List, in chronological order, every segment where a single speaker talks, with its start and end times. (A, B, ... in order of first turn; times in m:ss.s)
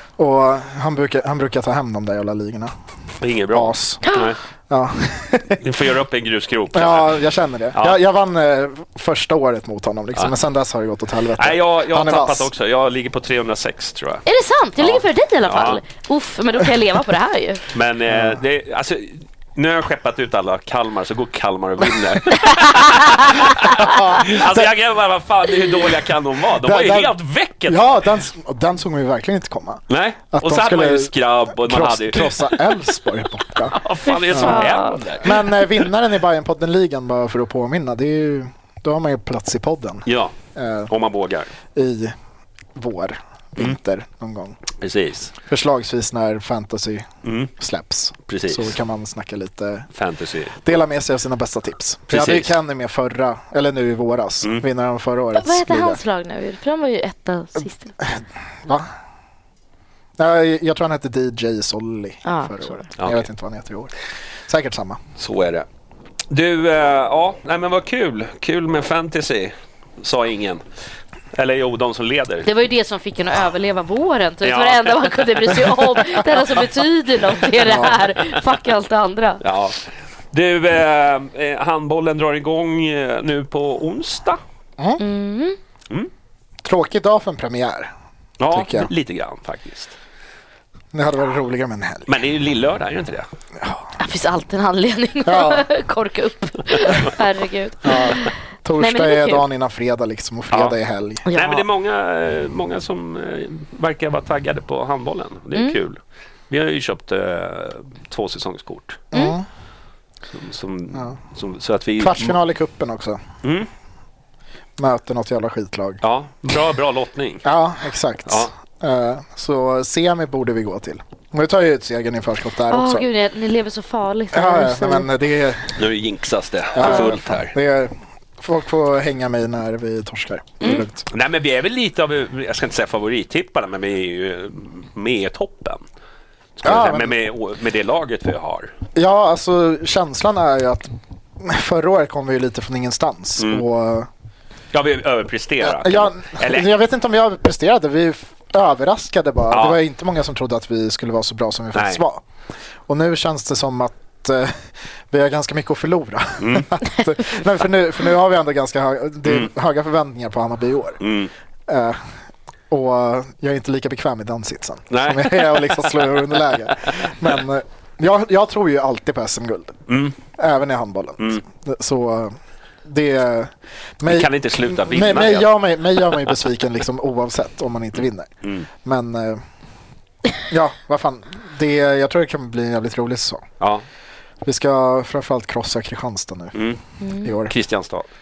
0:00.2-0:02.7 A
0:03.2-0:04.4 B
0:03.5-0:04.0 A
0:04.7-0:05.6 A
0:05.6-0:07.2 B
0:06.7-0:12.5 A
0:11.4-0:14.2 B
0:14.2-0:17.6 C
0:14.8-0:15.8 B
0:17.7-0:28.0 B
0:18.1-0:18.4 A
0:22.4-0:23.3 C
0:23.8-0:24.7 A
0:26.6-0:27.1 A
0:27.7-0:33.8 A
0:29.9-0:32.9 B
0:33.7-0:35.9 B
0:34.1-0:35.0 C
0:34.3-0:40.9 A
0:40.0-0:40.3 B
0:40.9-0:41.5 B
0:41.8-0:42.1 A
0:42.8-0:44.6 A
0:44.8-0:45.3 B
0:45.4-0:49.9 A
0:47.2-0:47.5 B
0:48.3-0:48.8 B
0:49.9-0:50.7 B
0:50.6-0:56.0 A
0:52.1-0:52.5 B
0:55.3-0:57.9 C
0:58.2-0:58.9 A
1:00.2-1:03.9 A
1:02.2-1:02.9 C
1:03.0-1:03.3 B
1:04.5-1:05.0 A
1:05.2-1:05.6 B
1:06.3-1:10.6 B
1:11.3-1:12.5 B
1:12.4-1:19.4 C
1:14.4-1:16.3 B
1:17.6-1:18.0 A
1:19.4-1:24.4 B
1:25.0-1:25.6 C
1:26.6-1:27.9 A
1:28.4-1:30.0 B
1:28.5-1:28.9 A
1:30.9-1:32.1 A
1:32.1-1:33.2 B
1:33.6-1:33.9 A
1:34.0-1:39.4 C
1:35.2-1:35.7 A
1:37.8-1:41.2 A
1:41.2-1:41.6 C
1:41.3-1:46.0 B
1:46.5-1:49.0 B
1:49.1-1:49.4 A
1:50.3-1:52.4 B
1:52.0-1:53.2 A
1:53.4-1:53.7 B
1:54.8-1:56.0 A
1:56.0-1:57.4 B
1:57.4-2:03.0 A
1:58.2-1:58.5 B
2:02.7-2:05.1 C
2:04.3-2:05.8 A
2:05.8-2:07.5 B
2:06.7-2:11.0 A
2:06.8-2:07.1 C
2:10.6-2:15.8 B
2:16.6-2:18.7 B
2:16.6-2:17.2 A
2:18.9-2:24.1 A
2:24.7-2:26.7 B
2:25.6-2:32.2 A
2:29.5-2:29.8 B
2:31.7-2:32.0 B
2:32.9-2:41.0 A
2:36.4-2:36.7 B
2:39.2-2:39.5 B
2:41.0-2:41.3 B
2:41.7-2:42.1 A
2:42.7-2:49.8 A
2:44.9-2:46.2 B
2:49.9-2:50.1 B
2:50.4-2:58.3 A
2:54.0-2:56.3 B
2:58.8-2:59.4 A
3:00.5-3:03.4 A
3:04.4-3:06.6 A
3:07.0-3:07.3 C
3:07.2-3:07.5 A
3:07.5-3:08.0 B